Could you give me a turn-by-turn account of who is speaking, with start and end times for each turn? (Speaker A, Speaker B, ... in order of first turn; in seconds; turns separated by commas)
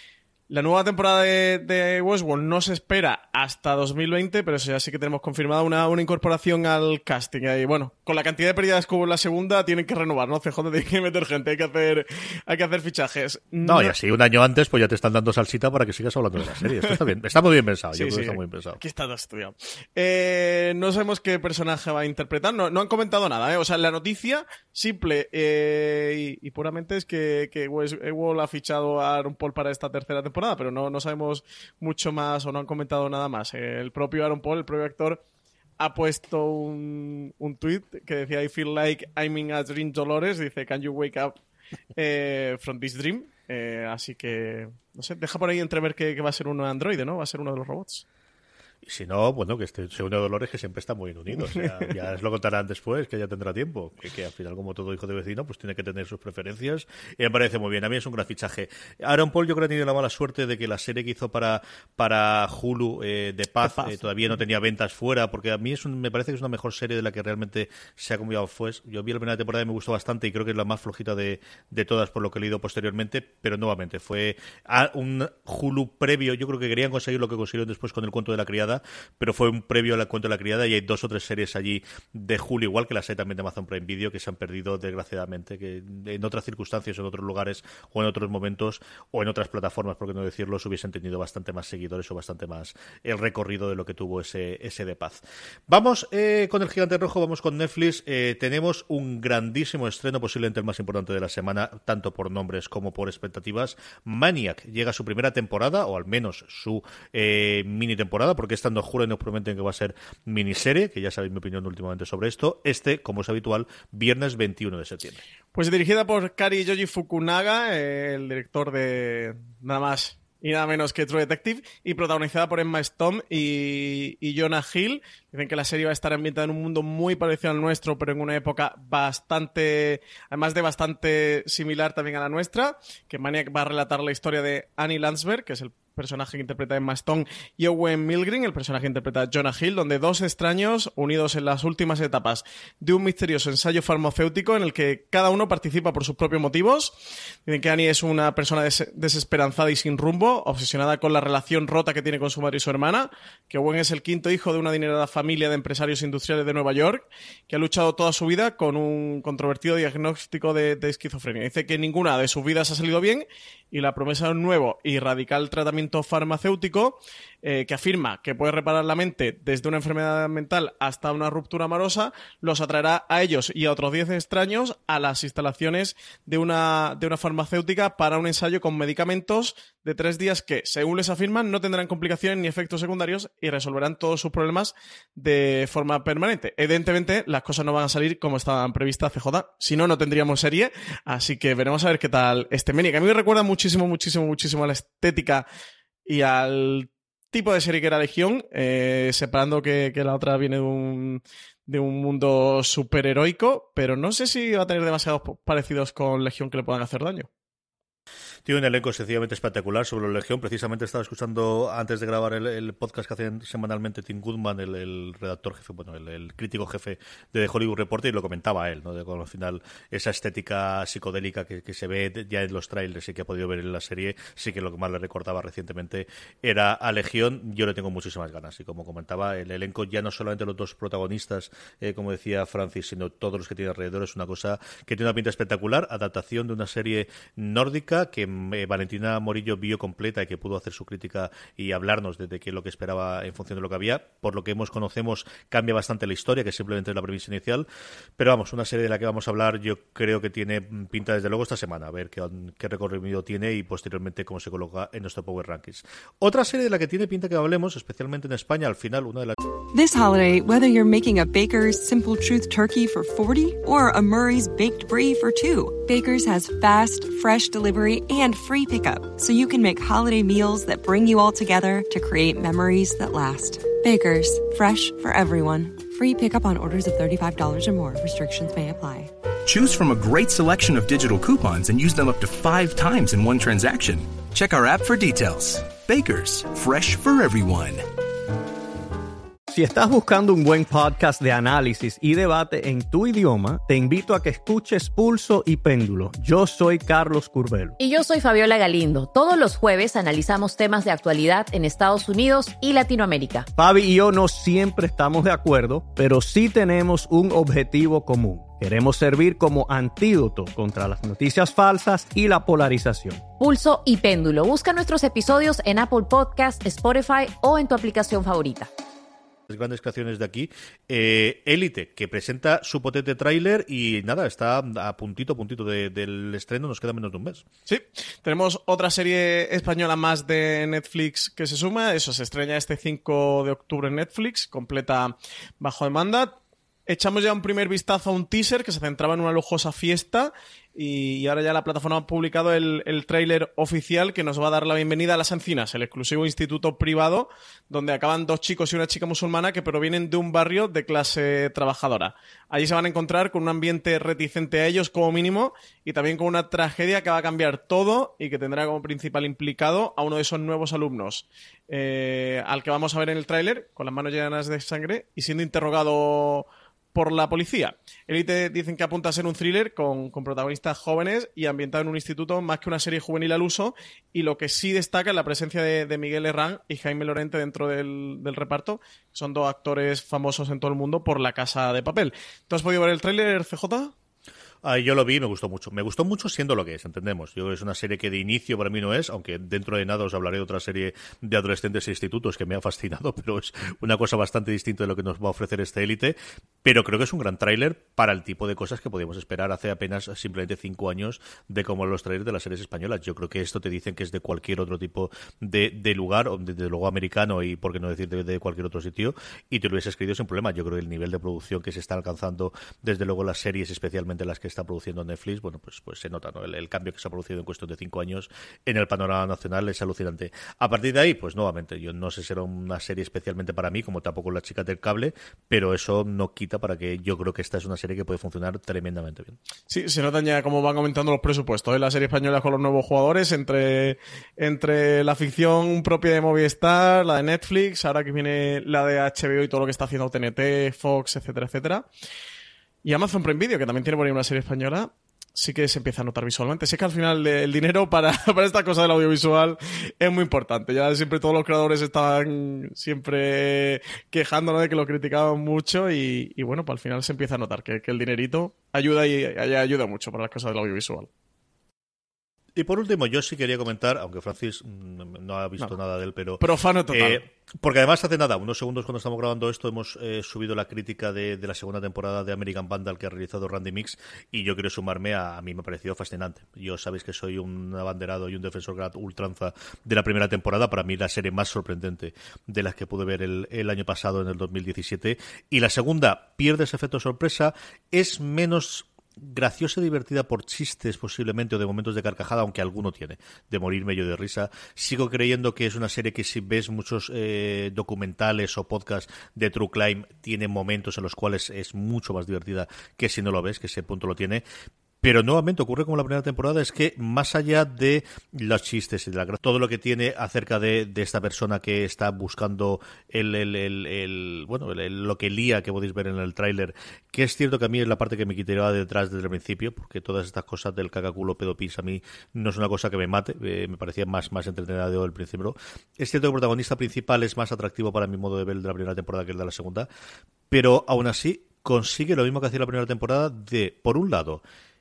Speaker A: 0.5-13.9, Speaker B: 13.6-18.8, Speaker A: 17.9-35.2, Speaker A: 35.8-41.4, Speaker A: 42.0-48.0, Speaker B: 48.8-115.2, Speaker A: 51.5-51.9, Speaker A: 63.7-64.0, Speaker A: 115.5-195.5, Speaker A: 196.1-207.3, Speaker B: 208.5-247.7, Speaker B: 248.2-259.4, Speaker C: 259.7-279.1, Speaker D: 279.5-287.9, Speaker E: 289.5-297.8, Speaker F: 297.8-303.5, Speaker E: 303.6-313.3, Speaker F: 313.4-318.7, Speaker B: 319.5-327.4, Speaker A: 327.7-383.9, Speaker B: 384.6-429.4, Speaker A: 429.7-441.9, Speaker A: 442.8-461.1, Speaker B: 462.6-504.4, Speaker A: 466.4-467.2, Speaker B: 505.0-529.9, Speaker B: 530.5-534.4